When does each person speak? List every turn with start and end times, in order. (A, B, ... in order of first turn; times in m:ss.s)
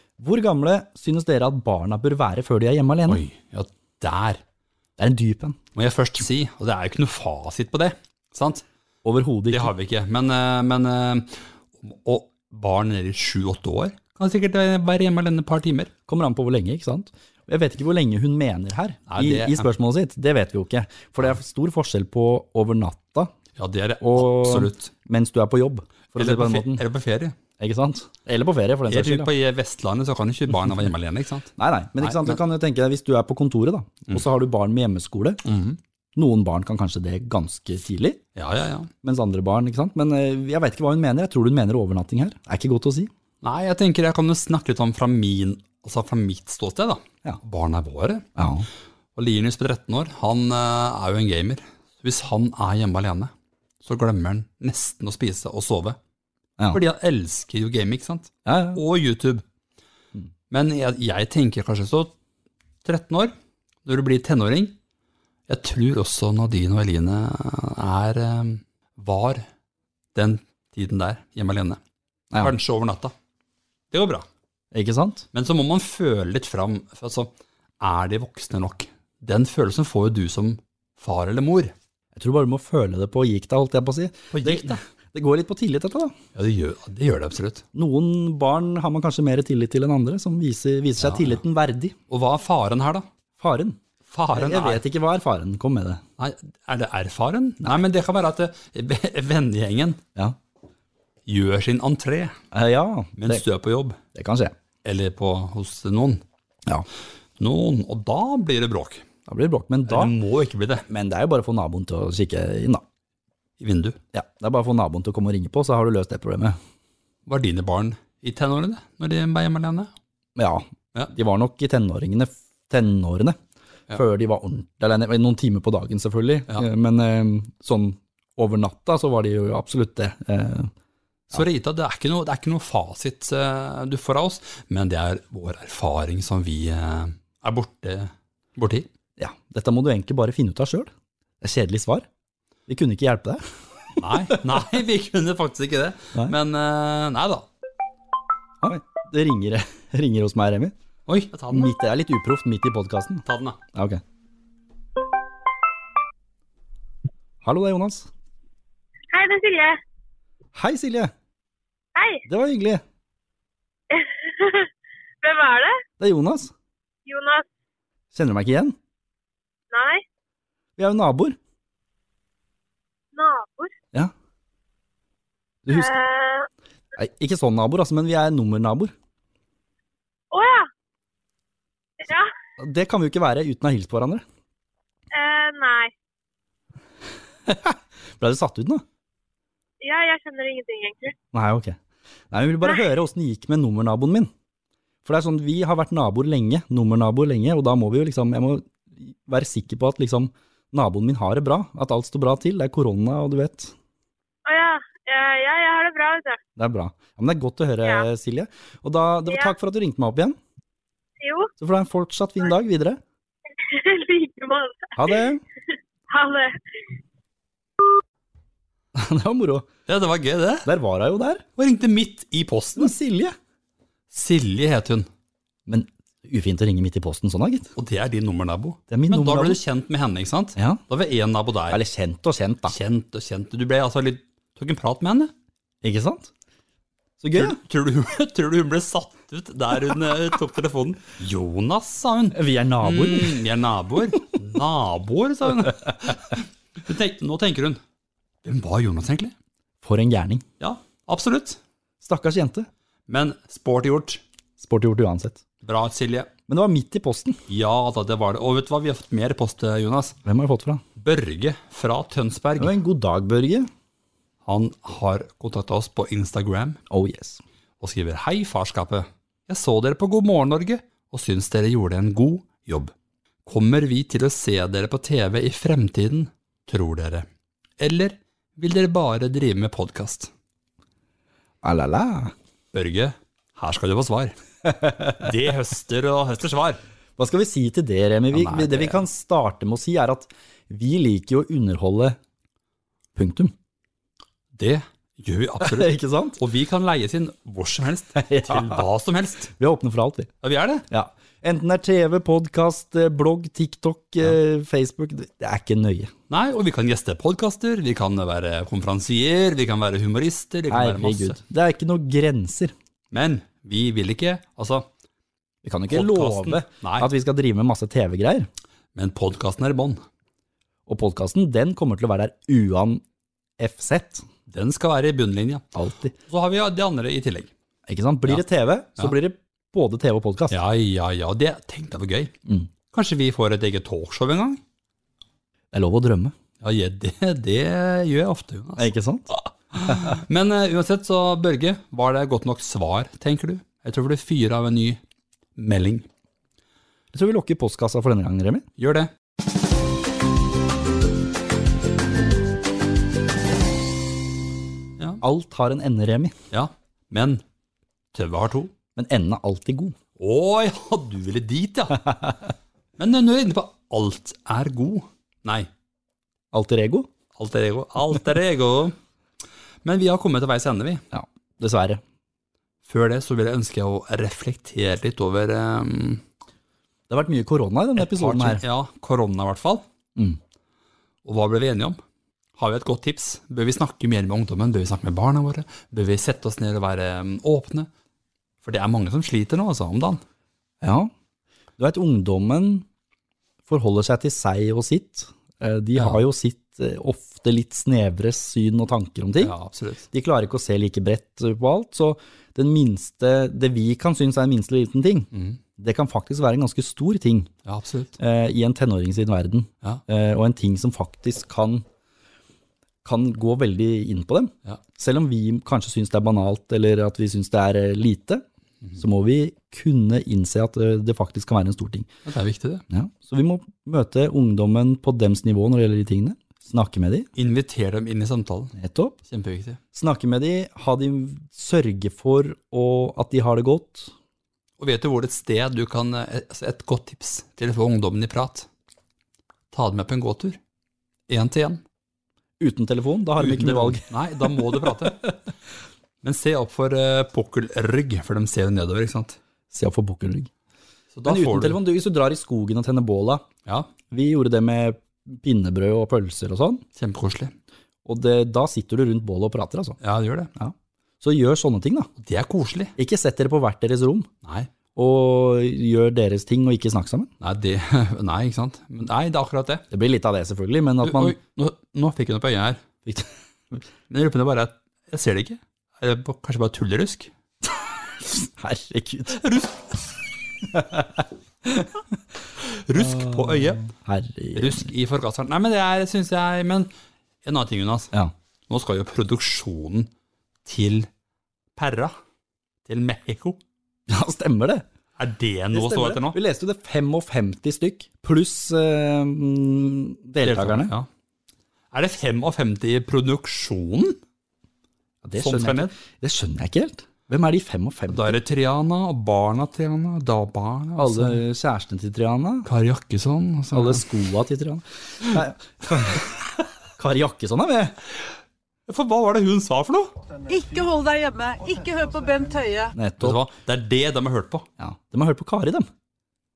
0:00.2-0:03.2 A
0:03.1-0:04.4 B
0:05.0-0:05.6 A
0:05.8-0:08.6 B
0:09.0-0:09.7 A
0:09.5-0:15.9 B
0:16.1-0:23.3 A
0:19.1-0:19.7 B
0:23.6-0:24.9 B
0:24.0-0:26.8 A
0:26.2-0:27.4 B
0:27.6-0:29.3 A
0:28.9-0:32.4 B
0:31.6-0:35.4 A
0:35.4-0:35.8 B
0:36.2-0:38.2 A
0:38.4-0:38.9 B
0:39.0-0:43.1 A
0:43.4-0:48.3 B
0:48.4-0:48.7 A
0:49.2-0:56.0 B
0:56.7-0:59.4 B
0:58.4-0:58.8 A
1:00.5-1:02.1 B
1:02.8-1:03.3 B
1:03.8-1:04.8 B
1:05.5-1:09.4 B
1:10.2-1:11.8 B
1:12.4-1:13.1 B
1:13.9-1:14.3 B
1:14.7-1:15.3 A
1:15.3-1:21.7 B
1:22.2-1:26.1 A
1:24.3-1:24.8 B
1:26.4-1:27.6 B
1:27.7-1:32.0 A
1:31.0-1:31.4 B
1:32.1-1:33.1 B
1:33.4-1:33.8 A
1:34.1-1:34.8 B
1:34.3-1:36.0 A
1:36.2-1:40.0 B
1:41.3-1:42.4 B
1:42.5-1:43.4 A
1:43.2-1:44.0 B
1:44.1-1:44.5 A
1:44.8-1:46.2 B
1:47.4-1:49.1 B
1:49.3-1:50.2 A
1:49.9-1:50.9 B
1:50.9-1:52.8 A
1:53.6-1:54.0 B
1:54.1-1:56.6 A
1:57.3-1:59.9 B
2:00.4-2:03.4 A
2:03.9-2:10.7 A
2:11.3-2:18.9 B
2:19.2-2:22.1 A
2:22.7-2:24.4 A
2:24.0-2:27.5 B
2:28.6-2:30.7 A
2:31.1-2:31.7 B
2:31.5-2:34.0 A
2:33.2-2:33.6 B
2:37.4-2:38.1 A
2:39.1-2:39.8 C
2:40.6-2:41.1 A
2:42.0-2:42.2 C
2:42.3-2:42.8 A
2:43.9-2:44.7 C
2:45.2-2:45.8 C
2:46.0-2:46.5 A
2:47.1-2:47.5 C
2:48.1-2:48.8 A
2:49.7-2:50.0 C
2:50.8-2:51.4 A
2:53.1-2:53.7 C
2:55.7-2:56.0 A
2:55.7-2:56.5 C
2:57.0-2:58.9 A
3:00.3-3:00.7 C
3:02.0-3:02.3 C
3:02.6-3:04.2 A
3:05.1-3:05.9 C
3:07.5-3:08.8 A
3:09.8-3:11.2 C
3:11.3-3:11.8 A
3:12.3-3:14.3 A
3:15.0-3:23.7 A
3:24.5-3:26.4 C
3:26.6-3:30.4 A
3:31.2-3:31.5 C
3:31.6-3:33.0 A
3:33.6-3:35.3 C
3:35.0-3:35.4 A
3:36.1-3:36.5 C
3:39.0-3:39.7 A
3:39.9-3:40.7 B
3:40.6-3:41.4 A
3:41.6-3:43.0 B
3:42.8-3:43.4 A
3:44.1-3:45.1 B
3:45.7-3:47.7 A
3:47.8-3:51.8 B
3:48.9-3:49.6 A
3:51.7-3:52.8 A
3:52.7-3:55.3 B
3:55.8-3:56.3 A
3:57.2-3:57.6 A
3:57.4-4:07.8 B
4:02.3-4:03.5 A
4:08.4-4:09.3 B
4:09.8-4:10.5 A
4:10.6-4:11.6 B
4:12.0-4:12.7 A
4:13.1-4:14.2 B
4:14.6-4:15.4 A
4:15.6-4:16.3 B
4:16.5-4:17.4 A
4:17.5-4:20.2 B
4:20.2-4:20.8 A
4:21.0-4:22.8 B
4:22.6-4:23.7 A
4:24.4-4:26.8 B
4:26.9-4:27.4 A
4:27.8-4:32.9 B
4:33.5-4:37.3 B
4:37.8-4:40.3 B
4:41.6-4:42.3 A
4:42.7-4:44.4 B
4:44.6-4:45.3 A
4:45.0-4:46.8 B
4:47.2-4:52.2 A
4:48.3-4:49.0 B
4:53.2-4:53.5 A
4:54.5-4:59.5 B
4:55.6-4:56.4 A
4:58.2-4:58.8 A
4:59.6-5:00.3 A
5:00.4-5:00.8 B
5:00.9-5:06.1 A
5:06.3-5:11.4 B
5:10.7-5:12.7 A
5:13.1-5:14.9 B
5:15.6-5:18.5 A
5:15.9-5:17.1 B
5:19.0-5:20.0 B
5:20.9-5:23.0 A
5:23.6-5:24.2 A
5:24.5-5:25.7 B
5:25.7-5:26.1 A
5:26.2-5:27.5 B
5:27.9-5:30.6 A
5:30.5-5:32.3 B
5:32.9-5:34.6 B
5:35.7-5:36.4 A
5:36.6-5:45.0 B
5:38.8-5:39.3 A
5:45.6-5:46.1 B
5:47.1-5:48.7 A
5:48.8-5:49.1 B
5:55.2-5:56.4 A
5:56.5-5:57.4 B
5:58.1-5:58.7 B
5:59.0-6:00.0 A
6:00.2-6:02.3 B
6:03.0-6:05.7 B
6:06.5-6:07.1 A
6:07.4-6:09.0 B
6:09.8-6:11.0 B
6:11.1-6:12.0 A
6:12.9-6:16.2 B
6:17.1-6:18.6 A
6:18.0-6:19.8 B
6:21.2-6:22.0 B
6:22.6-6:27.9 B
6:28.6-6:30.2 B
6:30.8-6:31.1 A
6:31.8-6:32.9 A
6:33.7-6:39.5 A
6:36.0-6:36.2 B
6:39.4-6:40.1 B
6:40.1-6:47.5 A
6:45.3-6:45.6 B
6:47.6-6:48.2 B
6:48.2-6:51.8 A
6:53.0-6:58.4 A
6:59.0-7:02.1 A
7:02.3-7:02.8 B
7:02.9-7:07.3 A
7:07.4-7:08.8 B
7:08.8-7:09.2 A
7:09.3-7:09.8 B
7:09.9-7:14.1 A
7:14.8-7:18.7 B
7:19.7-7:20.6 B
7:21.3-7:21.8 B
7:22.6-7:25.3 A
7:23.4-7:25.4 B
7:26.2-7:29.4 B
7:29.7-7:30.5 A
7:31.1-7:31.8 B
7:31.2-7:33.5 A
7:34.1-7:36.8 A
7:37.0-7:37.5 B
7:38.1-7:40.0 A
7:40.0-7:40.5 B
7:40.6-7:42.1 A
7:42.2-7:42.9 B
7:43.0-7:44.3 A
7:44.4-7:44.7 B
7:45.0-7:47.3 A
7:47.4-7:49.8 B
7:49.9-7:51.4 A
7:51.0-7:52.8 B
7:53.1-7:53.8 A
7:54.1-7:57.3 B
7:58.2-7:59.4 A
7:59.3-7:59.9 B
8:00.6-8:02.0 A
8:02.6-8:03.9 B
8:03.0-8:04.9 A
8:04.6-8:06.9 B
8:07.4-8:08.1 B
8:08.7-8:10.1 B
8:10.6-8:11.1 B
8:11.8-8:12.1 B
8:12.9-8:13.6 B
8:14.1-8:14.8 A
8:15.2-8:16.4 B
8:15.7-8:20.9 A
8:20.4-8:21.1 B
8:21.9-8:24.2 B
8:25.2-8:28.4 A
8:25.4-8:25.9 B
8:28.1-8:31.4 B
8:31.0-8:32.7 A
8:32.6-8:34.1 B
8:33.7-8:36.4 A
8:37.0-8:38.0 A
8:38.9-8:40.1 B
8:40.5-8:43.0 D
8:43.0-8:43.4 A
8:43.2-8:44.7 B
8:44.8-8:45.9 A